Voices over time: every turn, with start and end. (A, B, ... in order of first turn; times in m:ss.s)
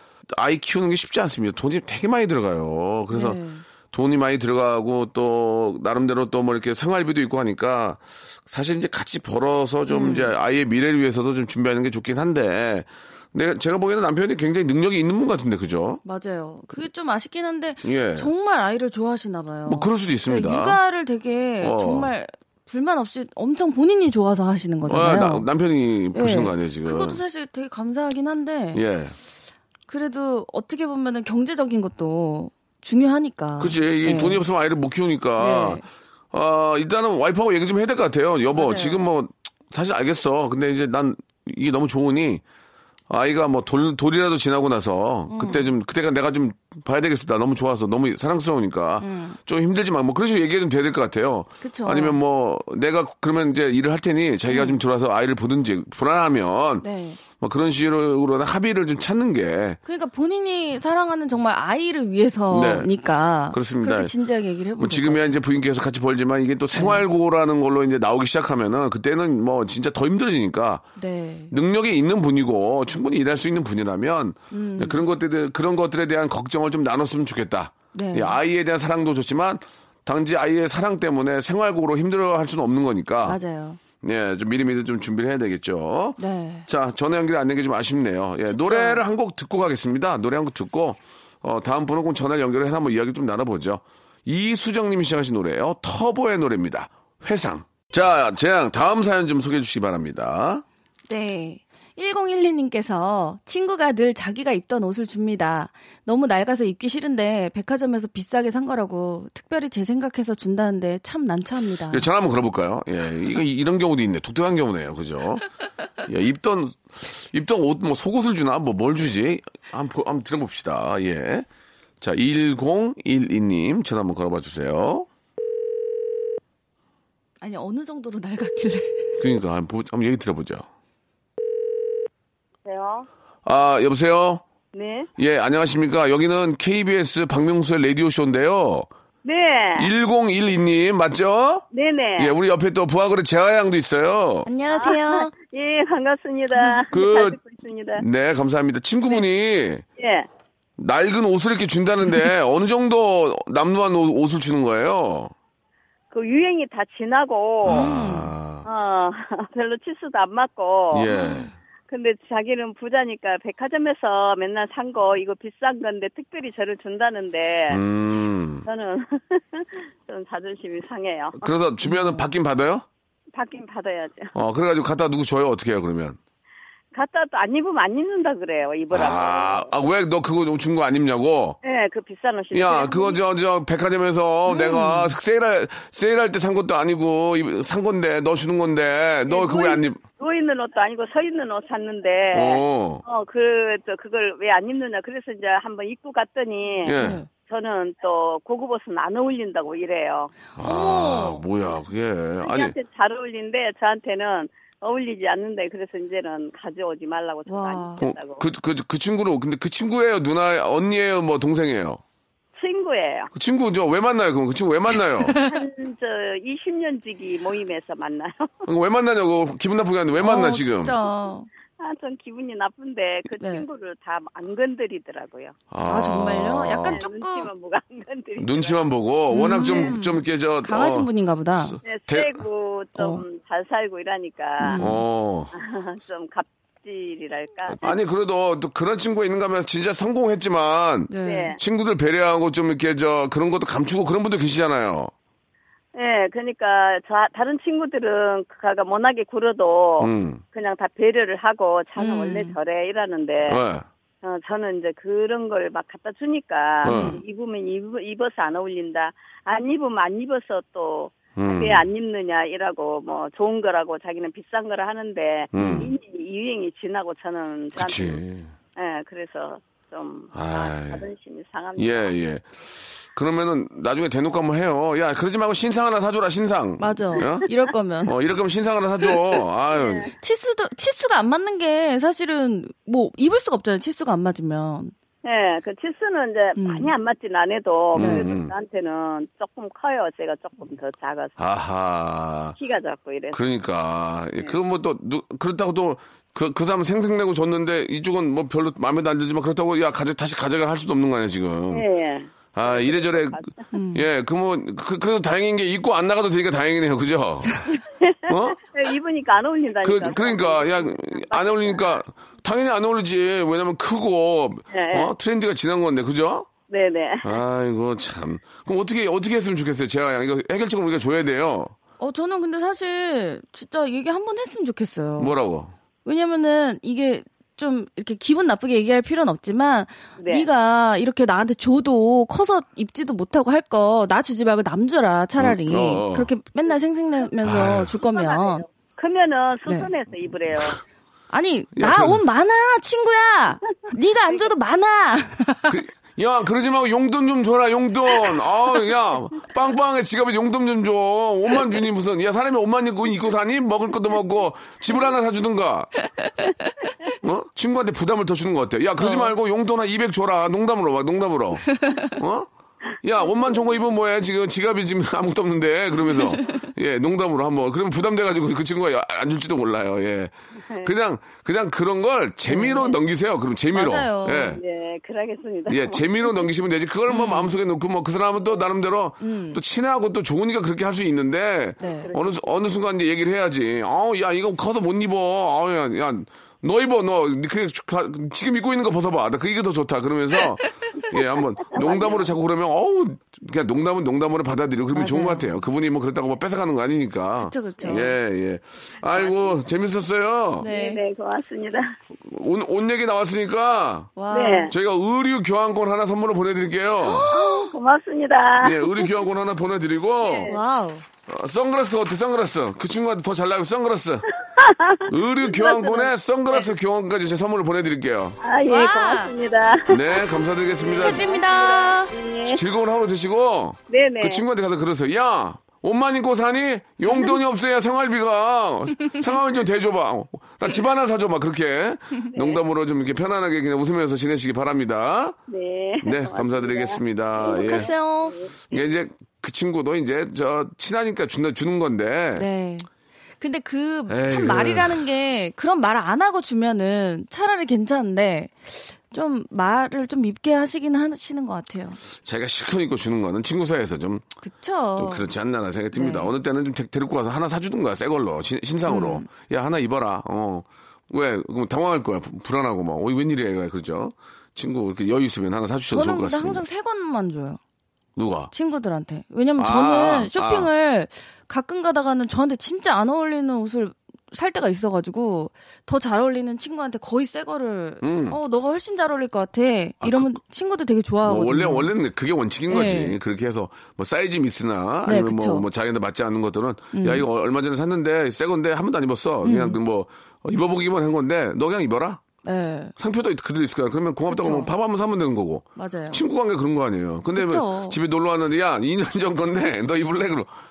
0:00.3-0:03.4 A
0:03.1-0:03.6 B
0:03.9-0:16.0 A
0:09.9-0:10.3 B
0:16.0-0:25.5 B
0:17.8-0:18.3 A
0:19.7-0:20.8 A
0:21.6-0:22.1 A
0:24.9-0:27.2 A
0:26.1-0:28.8 B
0:28.7-0:29.2 A
0:29.9-0:34.4 B
0:33.6-0:42.4 A
0:35.4-0:35.8 B
0:38.5-0:39.0 B
0:43.1-0:59.8 A
0:45.3-0:45.7 B
0:49.0-0:49.4 B
0:51.6-0:52.2 B
0:54.5-0:54.8 B
0:56.8-0:57.2 B
0:59.8-1:05.4 B
1:02.5-1:02.9 A
1:03.5-1:04.1 A
1:04.8-1:10.8 A
1:06.8-1:07.0 B
1:11.0-1:11.5 B
1:11.5-1:23.4 A
1:14.5-1:15.0 B
1:17.9-1:18.4 B
1:23.2-1:23.8 B
1:24.0-1:40.6 A
1:26.2-1:26.6 B
1:28.5-1:29.0 B
1:41.1-1:52.1 B
1:51.9-1:55.4 A
1:56.0-2:01.5 A
2:02.0-2:05.1 A
2:07.4-2:09.2 B
2:09.2-2:10.6 A
2:12.6-2:13.1 C
2:13.4-2:14.4 A
2:14.7-2:15.1 C
2:15.2-2:18.9 A
2:19.2-2:19.9 C
2:19.8-2:21.6 A
2:21.7-2:22.3 C
2:22.2-2:24.5 A
2:24.4-2:25.3 B
2:24.7-2:28.0 C
2:26.9-2:27.4 A
2:28.0-2:29.8 A
2:30.0-2:30.3 C
2:30.8-2:35.3 A
2:36.1-2:37.9 C
2:37.6-2:38.6 A
2:37.7-2:38.3 B
2:38.6-2:41.3 C
2:40.9-2:41.5 A
2:41.2-2:41.4 B
2:41.9-2:47.8 C
2:47.7-2:48.6 A
2:48.6-2:51.5 C
2:51.3-2:52.8 A
2:51.8-2:52.2 B
2:53.3-2:54.3 C
2:54.3-2:56.2 A
2:56.9-2:59.7 C
2:58.9-3:01.6 A
3:01.6-3:03.2 C
3:02.5-3:10.0 A
3:04.5-3:05.1 B
3:09.3-3:20.4 C
3:12.3-3:13.0 A
3:16.8-3:17.2 A
3:16.9-3:17.3 B
3:20.6-3:22.7 A
3:20.6-3:21.4 B
3:22.4-3:28.4 C
3:27.5-3:28.0 B
3:28.0-3:32.0 A
3:32.5-3:33.3 C
3:33.3-3:35.4 A
3:35.2-3:35.7 B
3:35.4-3:38.5 C
3:38.6-3:41.0 A
3:40.2-3:41.5 B
3:41.8-3:45.6 C
3:43.4-3:43.6 B
3:45.7-3:47.0 A
3:45.8-3:47.5 B
3:46.9-3:48.8 C
3:48.4-3:52.4 A
3:49.3-3:51.8 B
3:49.6-3:50.0 C
3:51.8-3:54.9 C
3:53.0-3:53.2 B
3:54.6-3:55.0 B
3:54.8-3:55.5 A
3:55.5-3:58.0 C
3:57.7-4:05.1 A
4:01.1-4:01.6 B
4:01.2-4:01.6 C
4:05.9-4:13.6 C
4:10.0-4:10.4 A
4:12.0-4:12.5 B
4:13.4-4:13.8 A
4:14.2-4:28.2 C
4:16.8-4:17.2 A
4:16.8-4:17.2 B
4:21.4-4:21.9 A
4:25.5-4:25.9 A
4:25.6-4:25.9 B
4:27.8-4:28.5 A
4:28.8-4:32.1 C
4:30.3-4:31.0 A
4:31.8-4:37.4 A
4:36.8-4:38.1 B
4:37.2-4:37.5 C
4:38.0-4:40.1 A
4:39.7-4:40.1 C
4:40.2-4:44.9 B
4:45.2-4:51.3 C
4:46.6-4:46.9 B
4:47.9-4:48.5 A
4:48.0-4:48.3 B
4:51.4-4:52.6 A
4:52.6-4:53.4 C
4:53.3-5:01.8 A
5:01.7-5:03.6 C
5:02.5-5:07.6 A
5:03.7-5:04.0 B
5:07.8-5:12.0 C
5:08.3-5:08.6 A
5:09.8-5:16.5 A
5:14.7-5:15.1 C
5:16.7-5:17.4 C
5:17.2-5:21.7 A
5:22.0-5:25.3 B
5:25.2-5:25.7 A
5:26.0-5:38.6 B
5:30.2-5:30.5 C
5:35.4-5:36.3 A
5:37.4-5:37.9 A
5:38.0-5:40.8 C
5:41.3-5:45.8 B
5:41.8-5:42.2 A
5:45.7-5:55.9 A
5:56.0-5:56.7 B
5:57.2-6:02.5 A
5:59.0-5:59.4 B
6:01.7-6:02.2 B
6:03.0-6:14.6 A
6:06.1-6:06.6 B
6:12.5-6:13.0 B
6:13.7-6:14.6 B
6:14.5-6:16.0 C
6:15.7-6:40.7 A
6:17.1-6:17.6 B
6:19.2-6:19.6 B
6:21.8-6:22.1 B
6:21.8-6:22.5 C
6:31.7-6:32.3 C
6:34.9-6:35.7 B
6:37.4-6:38.1 B
6:37.8-6:38.1 C
6:39.1-6:39.6 C
6:40.6-6:41.0 B
6:40.6-6:41.9 C
6:42.1-6:47.3 A
6:44.2-6:44.7 B
6:44.3-6:44.7 C
6:47.0-6:47.7 B
6:47.3-6:49.1 C
6:48.6-6:50.5 A
6:50.2-6:50.6 C
6:50.4-6:51.0 B
6:51.3-6:54.2 A
6:54.6-6:56.7 C
6:55.1-6:58.4 A
6:58.4-7:00.2 C
6:58.7-6:59.3 B
6:59.9-7:01.3 A
7:00.8-7:02.6 C
7:00.9-7:02.1 B
7:02.5-7:15.4 A
7:03.9-7:04.4 C
7:12.3-7:12.6 C
7:15.5-7:18.8 C
7:16.0-7:17.9 A
7:17.4-7:18.4 B
7:18.7-7:22.5 A
7:22.4-7:22.9 B
7:23.4-7:32.0 B
7:24.1-7:25.0 A
7:32.2-7:34.3 A
7:34.4-7:35.2 B
7:35.0-7:46.6 A
7:35.9-7:36.3 B
7:38.8-7:39.3 B
7:45.9-7:47.6 B
7:48.2-7:48.5 A
7:48.5-8:01.9 B
7:49.6-7:50.7 A
7:58.0-7:58.4 A
8:00.0-8:00.4 A
8:01.2-8:12.2 A
8:02.7-8:03.2 B
8:05.0-8:05.6 B
8:06.9-8:07.2 B
8:09.4-8:09.8 B
8:12.4-8:12.9 B
8:13.0-8:20.5 A
8:14.3-8:14.7 B
8:15.8-8:16.2 B
8:17.3-8:18.0 B